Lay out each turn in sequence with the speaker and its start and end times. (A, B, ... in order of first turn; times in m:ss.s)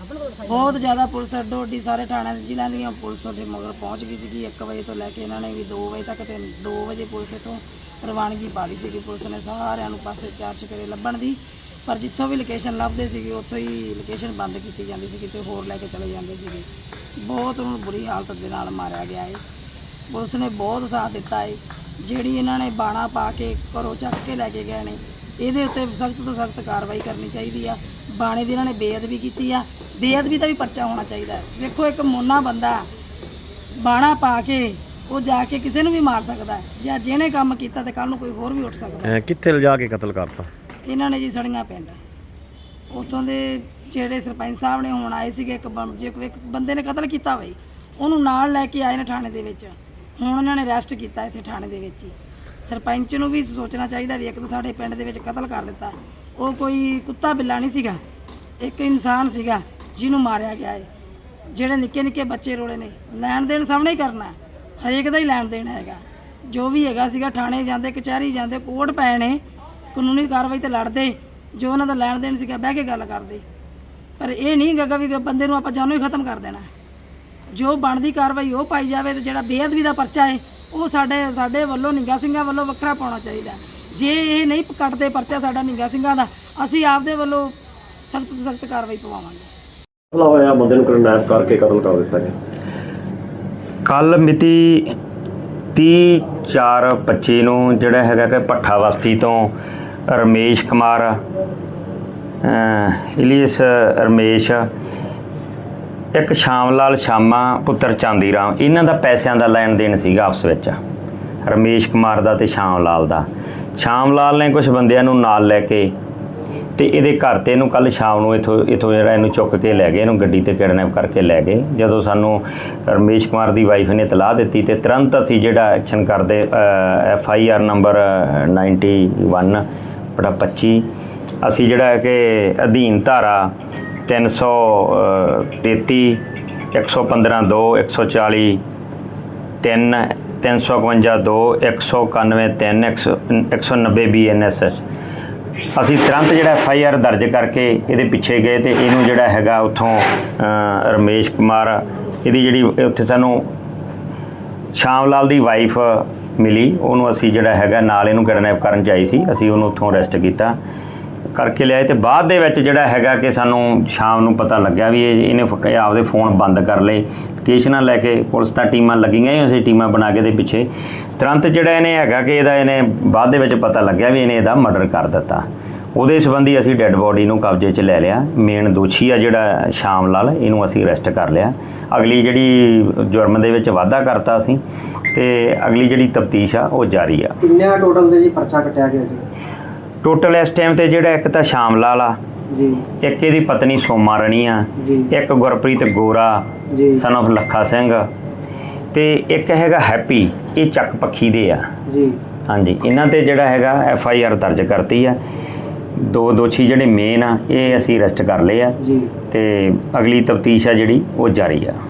0:00.4-0:16.7 A
0:17.2-0:19.4 A
0:20.1-0:32.8 A
0:33.8-0:39.2 A
0:39.0-0:40.5 B
0:40.9-0:42.0 A
0:42.9-0:58.0 A
0:58.6-1:00.9 A
1:01.5-1:09.4 A
1:09.9-1:13.4 A
1:14.2-1:16.7 A
1:17.5-1:27.5 A
1:28.1-1:29.5 A
1:30.1-1:32.3 B
1:33.9-1:34.9 C
1:35.8-1:39.5 C
1:40.1-1:41.2 C
1:42.4-1:44.7 C
1:46.2-1:50.8 C
1:51.4-1:55.9 C
1:56.8-2:09.6 C
2:10.2-2:10.9 C
2:11.4-2:13.5 C
2:14.1-2:16.2 C
2:16.7-2:18.6 C
2:19.6-2:24.8 C
2:25.8-2:33.5 C
2:34.7-2:40.6 C
2:41.4-2:50.7 C
2:51.2-2:55.4 C
2:56.0-3:04.6 C
3:05.1-3:07.4 C
3:07.4-3:09.2 D
3:10.0-3:12.2 C
3:12.5-3:12.8 D
3:13.0-3:18.1 C
3:14.8-3:15.1 D
3:16.7-3:17.0 D
3:18.9-3:21.7 C
3:21.9-3:22.2 D
3:22.5-3:25.2 C
3:26.0-3:28.8 C
3:28.8-3:29.1 D
3:29.3-3:31.8 C